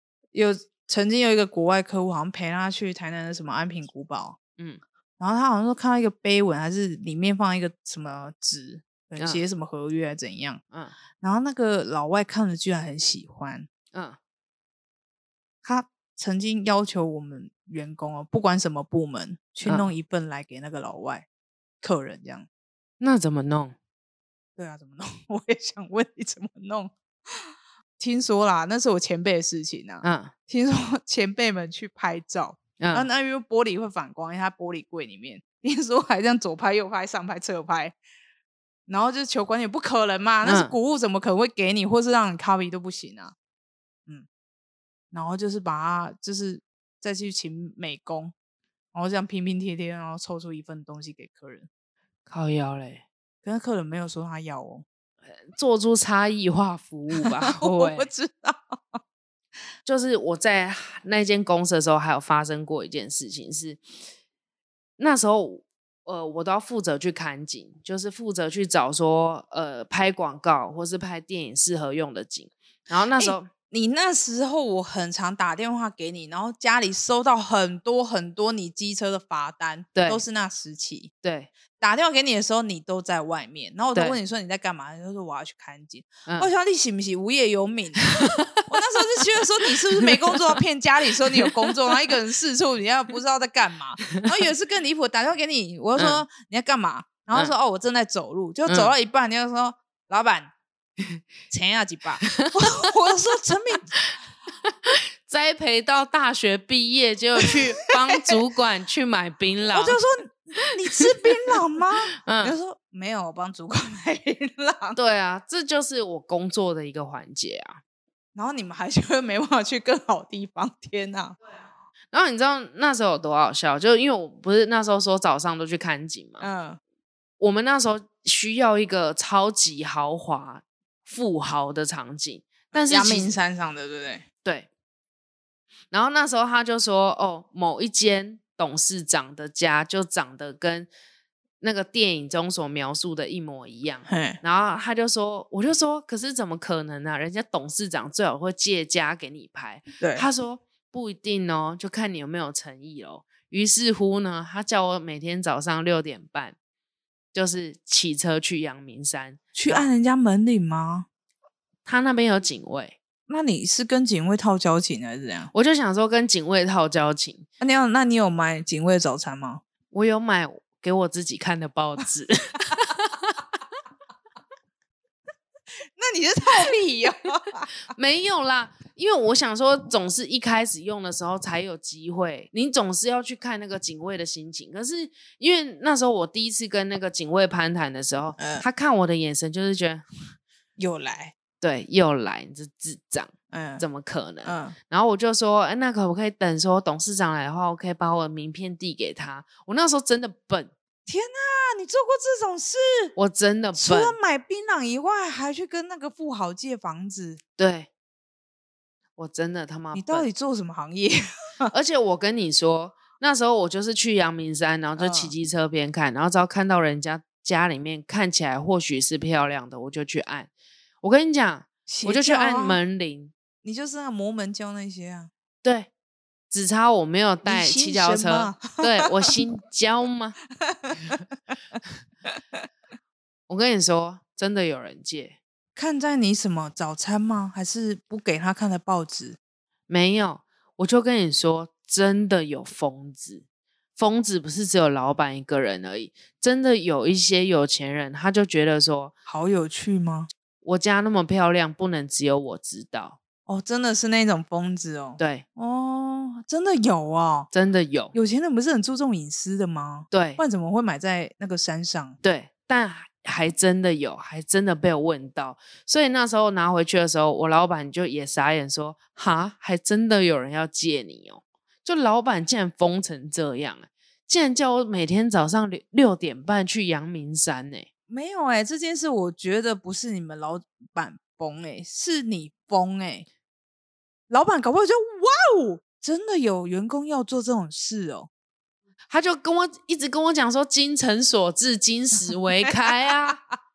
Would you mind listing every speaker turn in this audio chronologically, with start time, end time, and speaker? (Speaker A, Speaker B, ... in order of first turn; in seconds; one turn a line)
Speaker A: 0.3-4.4
Speaker A: 5.2-10.6
Speaker A: 11.2-13.7
Speaker B: 13.9-14.2
Speaker A: 15.6-21.3
Speaker A: 21.8-22.5
Speaker B: 23.0-23.7
Speaker A: 24.6-38.0
Speaker B: 30.0-30.3
Speaker B: 32.8-33.1
Speaker A: 38.9-43.3
Speaker B: 40.4-40.7
Speaker A: 45.1-48.3
Speaker A: 48.9-51.7
Speaker B: 52.3-53.0
Speaker A: 53.4-54.8
Speaker B: 55.4-58.1
Speaker A: 57.2-59.0
Speaker B: 59.8-63.8
Speaker B: 65.0-73.5
Speaker A: 73.2-81.1
Speaker B: 79.9-80.2
Speaker B: 81.2-81.5
Speaker A: 81.8-100.5
Speaker B: 88.1-89.0
Speaker B: 90.0-90.6
Speaker B: 91.3-91.7
Speaker B: 96.0-96.2
Speaker B: 98.7-98.9
Speaker A: 101.5-103.9
Speaker B: 102.2-102.9
Speaker B: 104.6-110.0
Speaker A: 109.7-115.0
Speaker B: 112.2-112.5
Speaker B: 114.9-117.8
Speaker A: 118.3-121.4
Speaker B: 122.1-126.5
Speaker A: 126.4-126.8
Speaker B: 127.4-133.3
Speaker A: 132.7-134.2
Speaker B: 135.9-140.9
Speaker B: 141.6-156.5
Speaker A: 144.1-144.4
Speaker A: 150.0-150.3
Speaker B: 157.3-159.9
Speaker A: 159.5-161.1
Speaker B: 161.8-163.0
Speaker A: 163.3-165.5
Speaker B: 165.5-167.5
Speaker A: 167.6-169.6
Speaker B: 169.9-173.4
Speaker A: 175.9-177.7
Speaker B: 177.9-190.0
Speaker A: 188.4-188.7
Speaker A: 190.8-191.3
Speaker B: 191.6-200.7
Speaker A: 193.5-193.8
Speaker A: 194.4-194.8
Speaker A: 201.1-203.1
Speaker B: 203.2-204.2
Speaker A: 203.8-207.4
Speaker B: 207.6-207.9
Speaker B: 209.2-210.3
Speaker A: 209.9-211.7
Speaker B: 211.7-220.5
Speaker A: 215.0-215.3
Speaker B: 221.0-223.3
Speaker A: 221.9-222.8
Speaker A: 223.6-225.3
Speaker B: 225.6-225.9
Speaker B: 226.5-230.4
Speaker A: 227.4-229.1
Speaker A: 230.6-231.1
Speaker B: 233.5-235.4
Speaker A: 235.8-239.4
Speaker B: 239.9-243.4
Speaker B: 243.9-249.1
Speaker A: 249.2-250.3
Speaker B: 250.6-253.2
Speaker A: 253.5-257.5
Speaker B: 255.2-255.4
Speaker B: 257.5-258.1
Speaker A: 258.1-262.2
Speaker B: 260.1-260.4
Speaker B: 262.2-277.9
Speaker A: 278.1-283.2
Speaker A: 284.3-288.3
Speaker B: 289.1-293.4
Speaker A: 292.3-293.4